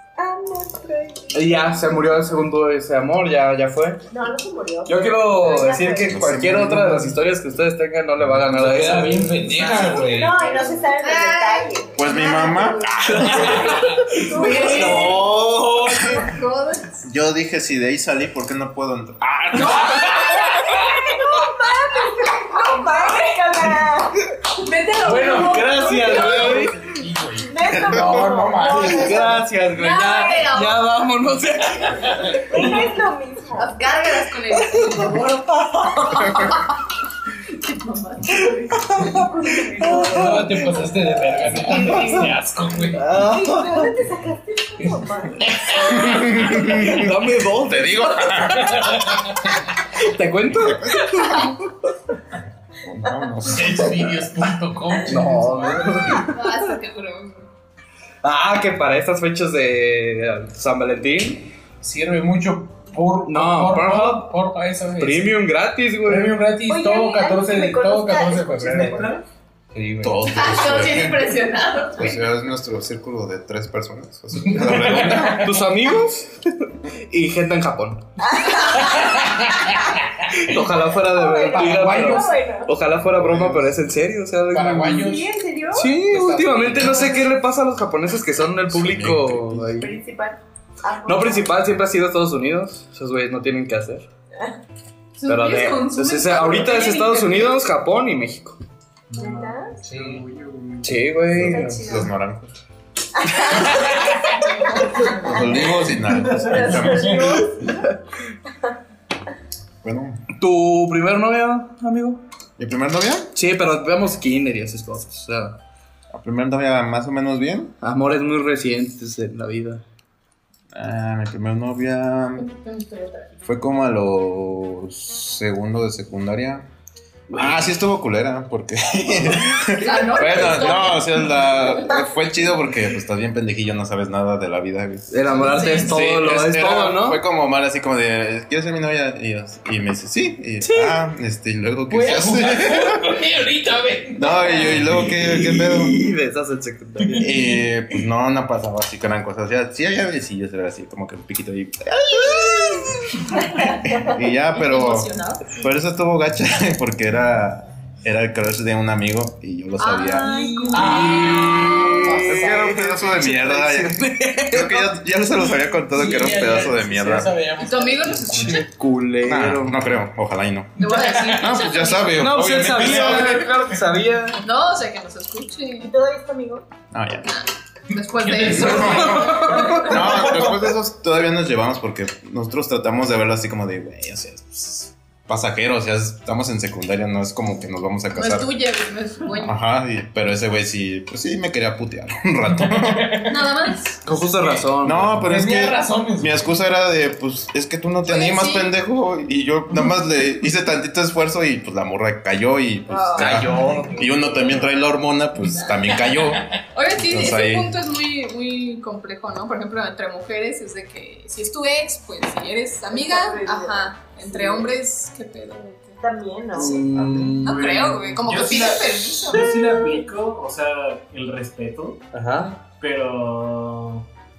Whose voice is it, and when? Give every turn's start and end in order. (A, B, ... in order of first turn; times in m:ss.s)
0:00.2-0:01.8 A
0:01.3-0:04.0 B
0:04.1-0:06.3 A
0:04.9-0:10.0 B
0:06.0-0:07.2 C
0:08.5-0:10.4 D
0:09.9-0:12.2 A
0:10.6-0:17.0 E
0:12.0-0:13.8 C
0:13.1-0:13.6 B
0:13.7-0:14.2 D
0:14.2-0:15.2 A
0:14.2-0:16.1 B
0:17.0-0:20.1 C
0:19.5-0:20.9 D
0:19.5-0:20.6 E
0:20.3-0:24.2 A
0:22.6-0:23.3 E
0:24.6-0:26.7 E
0:25.0-0:29.4 D
0:25.6-0:26.8 B
0:27.5-0:29.4 A
0:28.8-0:32.7 B
0:29.7-0:30.9 E
0:30.1-0:30.4 A
0:31.9-0:32.6 D
0:32.4-0:33.9 A
0:33.6-0:36.7 E
0:35.7-0:36.2 B
0:37.5-0:39.0 E
0:38.9-0:39.2 B
0:39.0-0:40.7 A
0:39.8-0:40.6 B
0:40.1-0:43.2 D
0:41.6-0:42.2 B
0:43.0-0:43.9 B
0:43.2-0:46.6 A
0:44.8-0:46.3 D
0:46.0-0:49.0 C
0:46.4-0:48.6 B
0:48.5-0:49.5 D
0:50.0-0:51.7 B
0:52.9-0:54.0 C
0:53.0-0:53.5 A
0:53.4-0:56.3 D
0:55.1-0:56.3 B
0:56.2-0:57.5 E
0:58.2-1:01.5 B
1:01.8-1:05.4 D
1:03.3-1:04.3 B
1:05.0-1:06.4 B
1:06.0-1:09.2 D
1:06.7-1:09.2 A
1:09.7-1:11.0 D
1:10.0-1:11.3 C
1:10.2-1:12.2 E
1:12.0-1:15.5 C
1:14.5-1:15.6 D
1:15.3-1:18.0 B
1:18.2-1:19.2 A
1:18.8-1:19.8 D
1:20.3-1:20.7 D
1:20.4-1:25.1 B
1:21.0-1:22.7 A
1:21.5-1:22.3 D
1:24.5-1:25.3 D
1:25.0-1:25.9 A
1:25.8-1:29.9 B
1:26.0-1:27.3 D
1:28.7-1:29.7 C
1:29.8-1:31.6 A
1:31.1-1:34.1 B
1:35.2-1:37.6 E
1:35.3-1:38.6 B
1:39.1-1:41.2 F
1:39.2-1:39.7 A
1:39.8-1:40.2 D
1:40.8-1:41.8 B
1:41.3-1:42.5 C
1:41.4-1:42.1 A
1:43.2-1:45.7 A
1:43.4-1:44.4 D
1:45.2-1:47.4 C
1:45.6-1:47.4 D
1:46.2-1:47.9 A
1:49.8-1:50.2 C
1:50.4-1:52.2 B
1:52.6-1:53.3 C
1:53.4-1:55.6 B
1:56.1-1:57.7 C
1:57.8-1:59.8 B
2:00.7-2:02.5 C
2:02.4-2:03.3 E
2:03.4-2:06.6 C
2:07.3-2:07.7 B
2:07.4-2:23.0 C
2:09.7-2:12.0 E
2:15.1-2:17.2 B
2:15.3-2:16.0 E
2:20.6-2:21.0 B
2:21.9-2:25.5 D
2:24.2-2:25.9 C
2:25.6-2:27.3 B
2:27.0-2:27.5 D
2:27.2-2:33.2 C
2:33.8-2:40.3 C
2:34.5-2:35.7 E
2:39.8-2:41.6 E
2:40.3-2:45.0 B
2:40.7-2:42.9 D
2:42.3-2:47.3 C
2:45.9-2:48.6 D
2:47.6-2:48.7 E
2:48.4-2:49.8 B
2:49.3-2:50.7 C
2:50.8-2:52.2 E
2:50.8-2:51.6 D
2:51.3-2:53.4 C
2:52.2-2:54.4 B
2:52.4-2:53.8 D
2:54.4-2:55.9 E
2:55.8-2:56.7 A
2:56.9-2:57.3 C
2:57.2-3:00.1 E
2:58.1-3:00.7 D
2:58.6-2:59.9 B
2:58.6-2:58.9 C
2:59.9-3:08.5 C
3:08.1-3:09.6 E
3:09.4-3:13.2 C
3:12.5-3:13.4 D
3:13.3-3:14.0 E
3:14.0-3:15.3 B
3:14.8-3:27.7 C
3:15.2-3:16.6 D
3:18.0-3:18.7 E
3:22.9-3:23.4 E
3:23.2-3:24.1 B
3:23.4-3:23.9 D
3:24.0-3:24.3 A
3:25.5-3:25.8 E
3:26.7-3:36.0 E
3:32.9-3:34.7 A
3:36.0-3:37.4 A
3:36.5-3:37.7 B
3:37.4-3:39.5 E
3:37.4-3:42.0 F
3:42.1-3:42.6 B
3:42.8-3:44.1 F